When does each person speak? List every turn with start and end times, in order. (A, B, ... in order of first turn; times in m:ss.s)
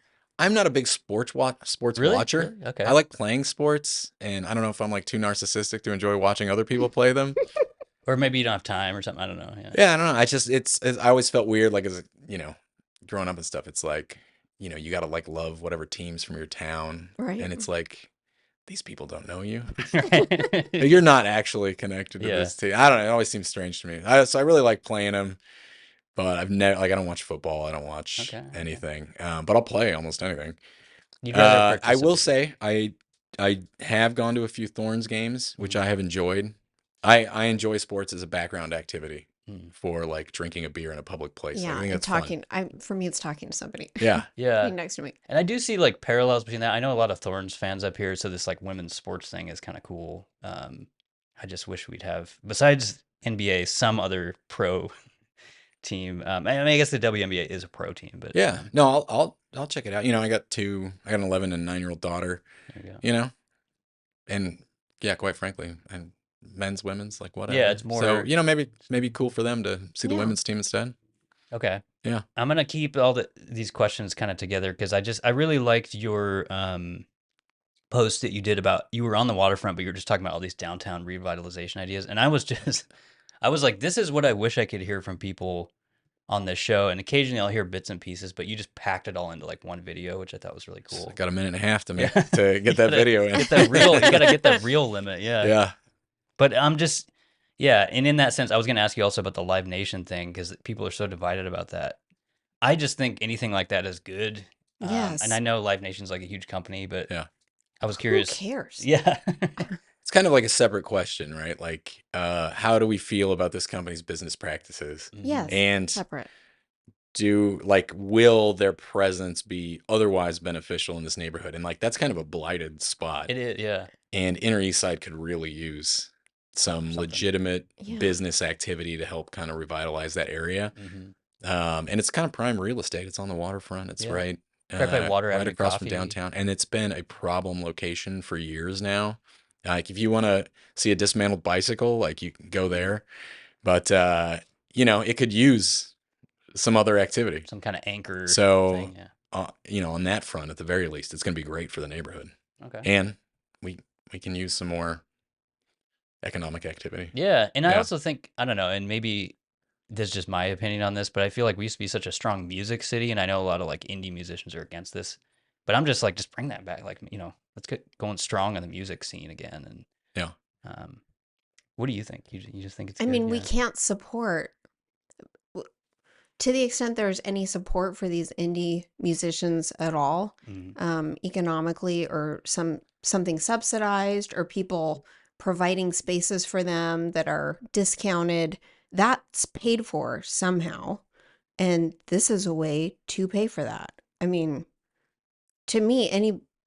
0:00.4-0:07.4 A
0:02.0-0:03.0 B
0:08.0-0:09.8 B
0:09.7-0:18.1 A
0:17.2-0:17.6 C
0:18.7-0:20.0 A
0:19.8-0:20.9 B
0:20.8-0:25.4 A
0:22.2-0:22.5 B
0:26.1-0:30.6 A
0:28.2-0:28.8 B
0:31.2-0:32.3 B
0:31.3-0:42.3 A
0:39.5-0:39.7 B
0:41.5-0:45.2 C
0:44.0-0:44.2 A
0:44.4-0:44.8 B
0:45.3-0:54.9 B
0:55.8-0:58.4 B
0:58.3-1:02.4 A
1:02.7-1:03.0 B
1:03.0-1:03.3 A
1:04.3-1:10.9 A
1:07.5-1:08.3 B
1:10.0-1:10.4 C
1:11.5-1:11.8 B
1:12.3-1:17.0 B
1:17.9-1:22.9 B
1:23.4-1:25.7 B
1:26.3-1:31.2 B
1:30.9-1:34.2 A
1:32.0-1:35.6 B
1:33.7-1:34.5 C
1:35.4-1:35.7 A
1:36.4-1:42.0 B
1:42.6-1:47.1 B
1:44.8-1:45.4 C
1:47.8-1:49.8 B
1:48.0-1:48.9 C
1:50.0-1:56.0 A
1:55.1-1:55.5 B
1:55.2-1:56.3 C
1:57.1-2:03.3 A
2:03.3-2:03.9 B
2:04.1-2:10.7 A
2:06.6-2:07.3 B
2:07.8-2:08.1 C
2:10.8-2:11.1 B
2:11.4-2:23.0 A
2:14.0-2:16.2 B
2:23.6-2:25.9 A
2:26.5-2:27.4 A
2:27.5-2:29.1 B
2:28.3-2:32.3 A
2:32.6-2:32.9 B
2:32.8-2:35.0 A
2:36.2-2:37.1 A
2:37.1-2:39.3 B
2:39.9-2:49.8 B
2:50.6-2:51.0 B
2:51.8-2:53.5 B
2:53.0-2:54.5 C
2:56.4-3:11.0 C
3:00.4-3:00.8 B
3:11.6-3:14.6 C
3:15.7-3:16.4 C